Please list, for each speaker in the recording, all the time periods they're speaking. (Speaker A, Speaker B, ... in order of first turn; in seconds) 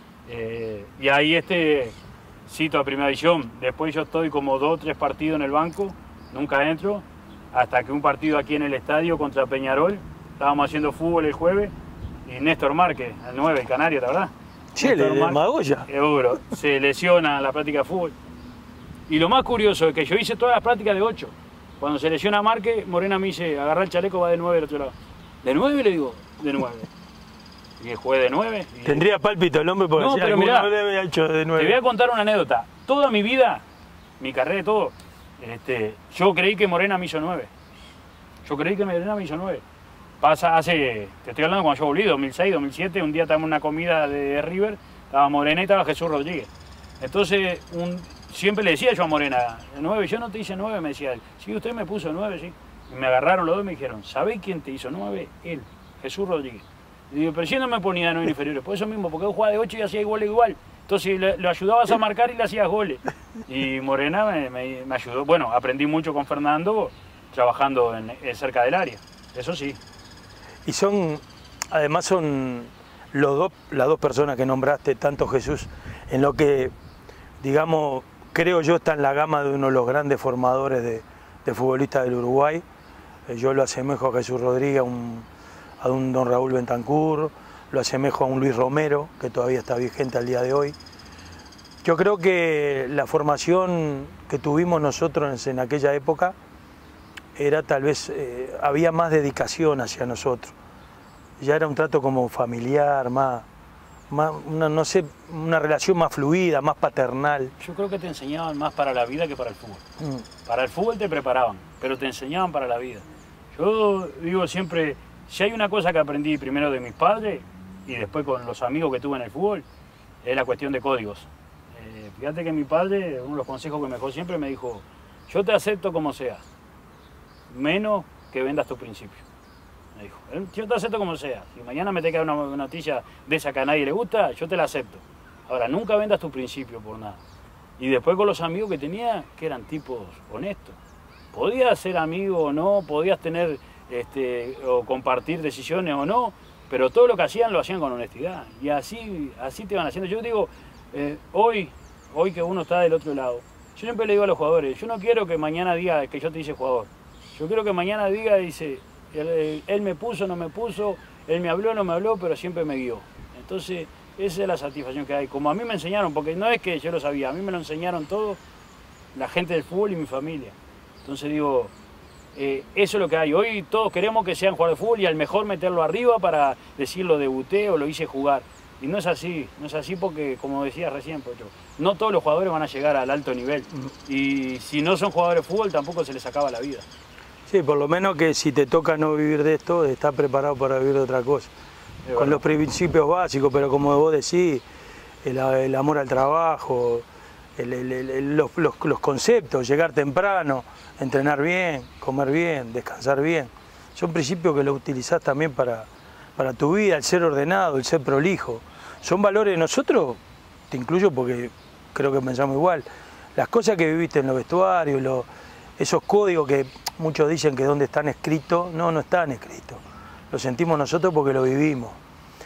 Speaker A: 0.3-11.7, 12.2-18.1, 19.1-26.9, 27.8-29.1, 30.0-30.7, 31.6-33.6, 34.2-37.5, 38.5-39.6, 40.2-46.5, 47.0-69.8, 107.6-109.8, 110.5-119.7, 120.2-126.4, 127.5-129.2, 129.9-137.2, 137.8-140.8, 141.3-168.4, 169.1-171.7, 172.3-186.9, 192.1-192.5
Speaker B: 14.8-15.9, 28.9-31.8, 70.7-76.7, 77.4-82.6, 83.3-85.3, 85.8-90.8, 91.8-96.3, 97.4-100.5, 101.4-103.5, 104.1-107.5, 110.0-110.2, 187.5-191.5, 192.2-194.6, 195.2-197.1, 197.6-212.8, 213.4-222.0